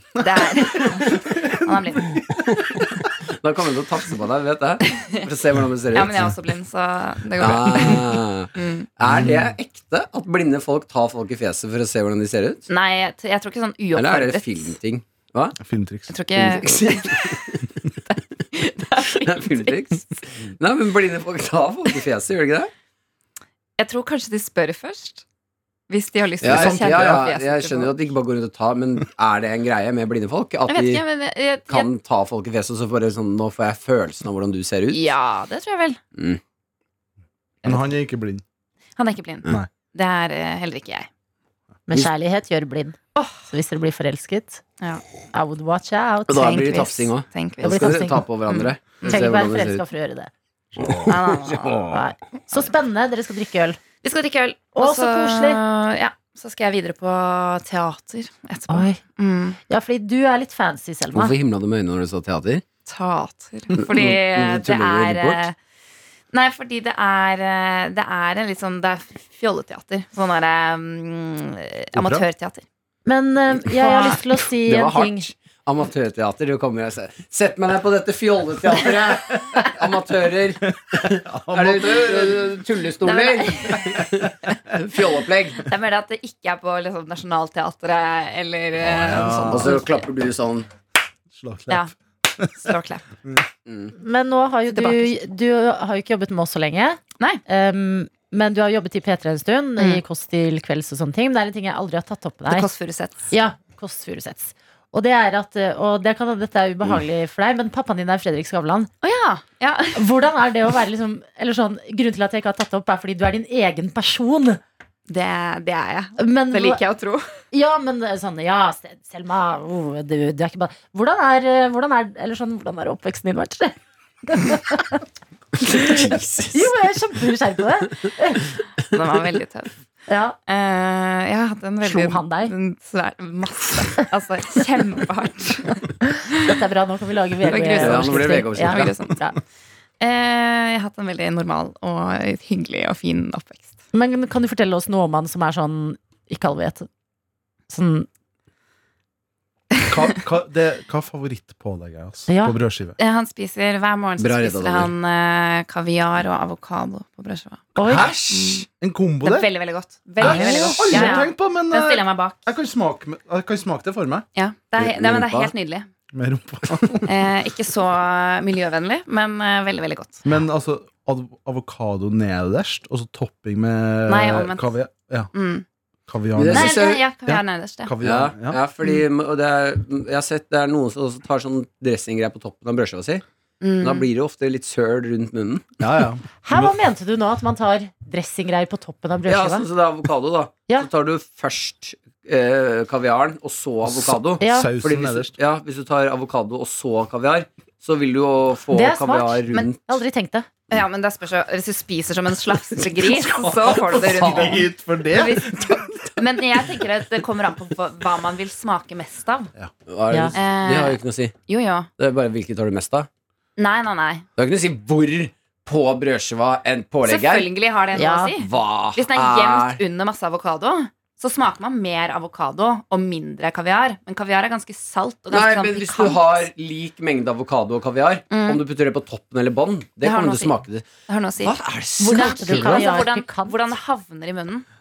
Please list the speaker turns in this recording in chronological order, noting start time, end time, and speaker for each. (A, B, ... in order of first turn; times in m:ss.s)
0:00.2-0:03.0 A
0:00.2-0:02.2 B
0:02.3-0:06.3 C
0:04.9-0:05.2 B
0:05.9-0:08.9 B
0:07.4-0:12.7 C
0:09.0-0:09.5 A
0:12.7-0:14.7 B
0:14.0-0:15.6 C
0:15.6-0:16.5 A
0:16.1-0:17.6 B
0:16.5-0:17.7 C
0:18.1-0:20.0 B
0:19.2-0:22.7 C
0:23.8-0:25.2 B
0:25.9-0:28.0 B
0:26.4-0:27.2 A
0:26.4-0:31.0 C
0:30.7-0:31.9 B
0:31.7-0:35.1 C
0:34.9-0:36.0 B
0:36.2-0:36.4 C
0:37.6-0:38.4 A
0:39.0-0:41.1 B
0:41.9-0:43.0 D
0:43.2-0:43.4 B
0:43.5-0:44.6 D
0:45.3-0:47.1 D
0:46.3-0:49.8 C
0:46.5-0:49.3 B
0:47.6-0:48.3 D
0:49.0-0:50.3 D
0:50.8-0:51.1 A
0:50.8-0:52.1 C
0:51.1-0:51.9 B
0:51.9-0:53.8 D
0:54.0-0:59.6 B
0:54.8-0:55.6 D
0:58.7-0:59.0 D
0:59.7-1:01.4 D
1:01.1-1:02.6 C
1:02.9-1:05.6 B
1:03.7-1:05.4 C
1:06.3-1:12.6 B
1:12.0-1:12.3 A
1:13.1-1:15.3 D
1:13.7-1:14.2 B
1:14.6-1:25.7 C
1:20.9-1:22.6 A
1:23.0-1:24.1 B
1:25.6-1:30.0 B
1:28.9-1:29.8 A
1:29.5-1:30.7 C
1:31.3-1:32.8 A
1:32.6-1:33.0 B
1:33.7-1:33.9 C
1:34.0-1:42.7 D
1:34.7-1:35.1 B
1:42.5-1:43.3 B
1:43.3-1:48.9 D
1:49.0-1:50.0 B
1:50.0-1:54.6 D
1:55.1-1:57.4 B
1:56.2-1:56.8 D
1:57.5-2:05.0 D
2:05.6-2:06.7 C
2:05.6-2:08.5 D
2:08.9-2:09.7 B
2:10.1-2:10.4 D
2:10.5-2:16.6 B
2:11.8-2:12.5 D
2:16.1-2:19.4 D
2:17.4-2:19.2 B
2:17.8-2:19.0 C
2:20.0-2:23.8 B
2:23.9-2:26.9 D
2:27.7-2:28.1 D
2:29.9-2:33.0 A
2:32.3-2:32.6 D
2:33.0-2:37.7 B
2:34.2-2:34.9 C
2:37.8-2:38.1 D
2:37.8-2:39.5 A
2:37.9-2:38.6 C
2:38.3-2:38.7 B
2:39.2-2:42.4 B
2:40.2-2:44.3 A
2:40.3-2:41.3 D
2:44.4-2:45.9 B
2:44.8-2:45.5 C
2:46.1-2:47.1 A
2:47.0-2:50.2 B
2:50.2-2:55.3 A
2:54.1-2:54.7 B
2:55.3-2:55.6 B
2:56.1-2:58.6 A
2:56.4-2:57.0 C
2:56.5-2:57.9 B
2:58.0-3:03.2 C
3:03.6-3:04.1 B
3:03.8-3:05.7 C
3:05.8-3:06.7 A
3:06.4-3:09.7 D
3:09.3-3:19.8 C
3:13.8-3:15.3 A
3:14.4-3:14.7 D
3:18.7-3:20.5 D
3:20.7-3:29.5 B
3:23.2-3:24.6 C
3:23.4-3:25.9 A
3:29.9-3:31.4 C
3:30.1-3:30.4 D
3:30.3-3:31.9 B
3:32.0-3:33.1 C
3:33.6-3:34.3 B
3:34.4-3:37.5 C
3:37.0-3:46.2 B
3:38.0-3:38.3 D
3:38.4-3:39.8 C
3:45.3-3:50.9 C
3:48.3-3:48.6 B
3:50.0-3:50.6 B
3:51.1-3:54.6 B
3:51.4-3:52.9 C
3:52.0-3:53.7 D